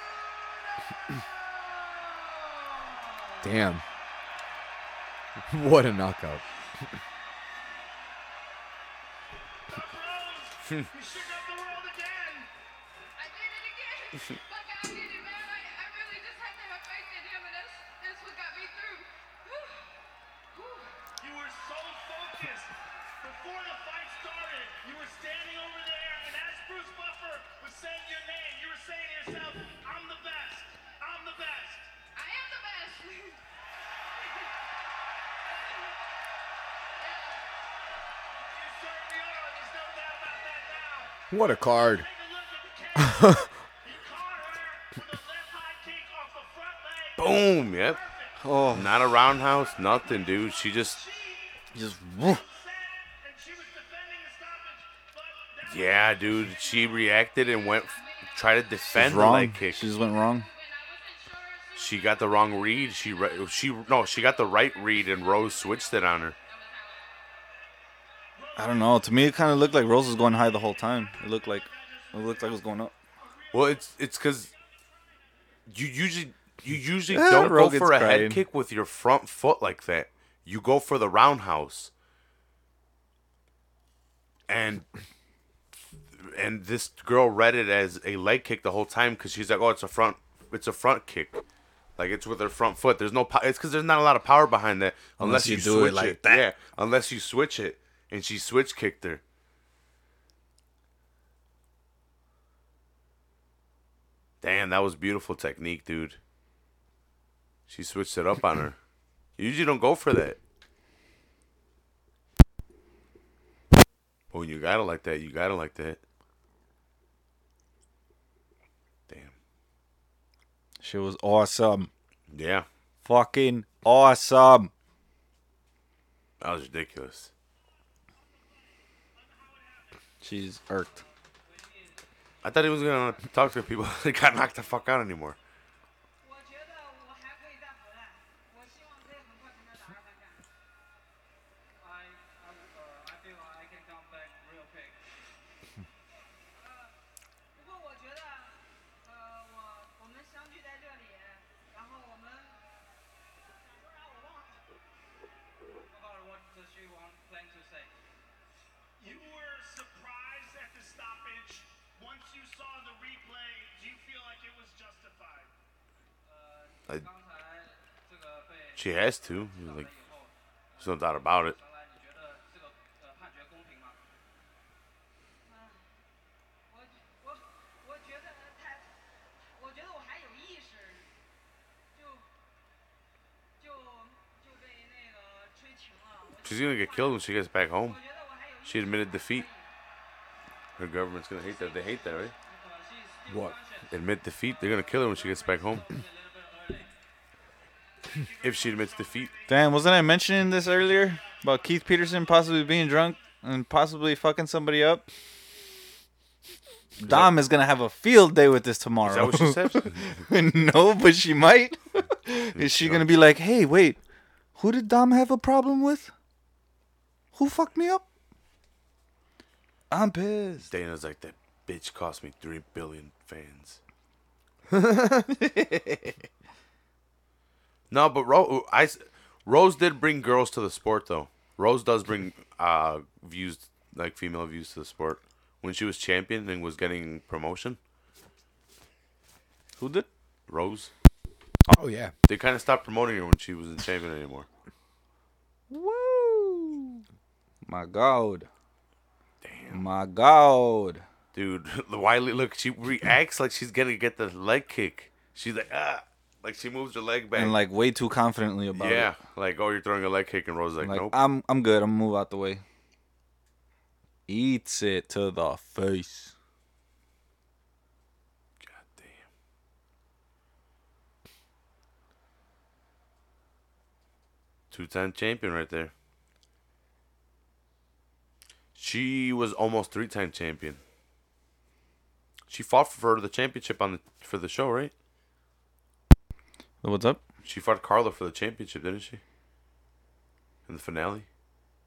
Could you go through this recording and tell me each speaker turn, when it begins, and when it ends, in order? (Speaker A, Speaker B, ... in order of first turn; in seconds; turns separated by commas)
Speaker A: 3.4-3.8, Speaker A: 5.4-6.8, Speaker B: 9.7-12.5, Speaker C: 13.2-19.8, Speaker B: 20.7-31.9, Speaker C: 32.1-33.4, Speaker B: 35.5-35.8, Speaker B: 38.3-48.4, Speaker A: 41.3-42.1, Speaker A: 43.0-43.5, Speaker D: 47.2-48.0, Speaker E: 48.4-48.9, Speaker D: 48.7-51.0, Speaker B: 49.6-51.6, Speaker E: 51.7-52.4, Speaker B: 52.2-56.7, Speaker D: 55.6-59.9, Speaker C: 58.0-58.3, Speaker E: 58.9-60.5, Speaker C: 60.4-62.1, Speaker D: 61.7-66.4, Speaker C: 65.9-67.0, Speaker B: 68.3-69.1, Speaker E: 68.5-72.9, Speaker B: 71.0-72.6, Speaker B: 73.2-73.9, Speaker D: 73.5-74.5, Speaker D: 75.7-81.9, Speaker E: 77.1-78.4, Speaker D: 84.5-84.9, Speaker D: 86.2-91.4, Speaker D: 92.0-99.2, Speaker E: 95.2-96.5, Speaker D: 104.4-106.2, Speaker D: 107.7-108.8, Speaker D: 109.4-110.4, Speaker D: 114.3-116.0, Speaker D: 119.1-119.3, Speaker E: 120.8-121.9, Speaker D: 122.3-122.7, Speaker E: 123.0-124.7, Speaker D: 126.4-127.3, Speaker B: 129.1-130.0, Speaker E: 130.2-131.0, Speaker D: 132.4-135.4, Speaker C: 136.2-140.4, Speaker F: 141.8-144.9, Speaker C: 146.6-146.9, Speaker C: 147.6-152.6, Speaker C: 153.9-154.5, Speaker F: 155.9-157.8, Speaker B: 159.0-165.5, Speaker F: 167.1-167.4, Speaker F: 168.1-168.7, Speaker D: 168.7-169.9, Speaker C: 169.5-171.3, Speaker F: 169.9-170.2, Speaker D: 170.8-171.6, Speaker F: 171.5-173.9, Speaker C: 175.4-175.8, Speaker C: 176.7-178.9, Speaker C: 179.6-181.1, Speaker C: 181.9-182.2, Speaker C: 183.6-187.2, Speaker D: 186.4-188.0, Speaker C: 187.8-189.7, Speaker D: 188.6-189.5, Speaker D: 190.8-192.3, Speaker C: 191.5-193.9, Speaker A: 193.3-193.6, Speaker D: 193.9-195.9, Speaker C: 194.5-196.9, Speaker B: 198.1-199.9, Speaker D: 198.4-199.3, Speaker E: 199.5-205.1, Speaker B: 200.8-202.0, Speaker E: 207.0-214.0, Speaker D: 207.0-207.3, Speaker D: 209.0-210.2, Speaker D: 212.5-213.1, Speaker E: 214.6-216.1, Speaker E: 217.3-218.0, Speaker E: 219.9-220.7, Speaker D: 220.6-223.8, Speaker A: 224.7-225.3, Speaker E: 225.4-226.1, Speaker D: 227.9-237.8, Speaker E: 239.8-240.1, Speaker D: 240.5-240.9, Speaker A: 241.7-242.1, Speaker D: 242.2-244.5, Speaker E: 245.7-247.0, Speaker E: 247.6-248.5, Speaker D: 249.4-249.8, Speaker E: 249.7-251.1, Speaker D: 251.3-257.6, Speaker E: 257.3-259.1, Speaker D: 258.7-261.1, Speaker E: 260.8-262.6, Speaker E: 264.3-266.3, Speaker D: 268.6-269.3, Speaker D: 274.7-275.9, Speaker D: 278.7-280.8, Speaker D: 282.5-284.9, Speaker E: 286.8-287.2, Speaker D: 287.4-289.2, Speaker D: 290.7-291.3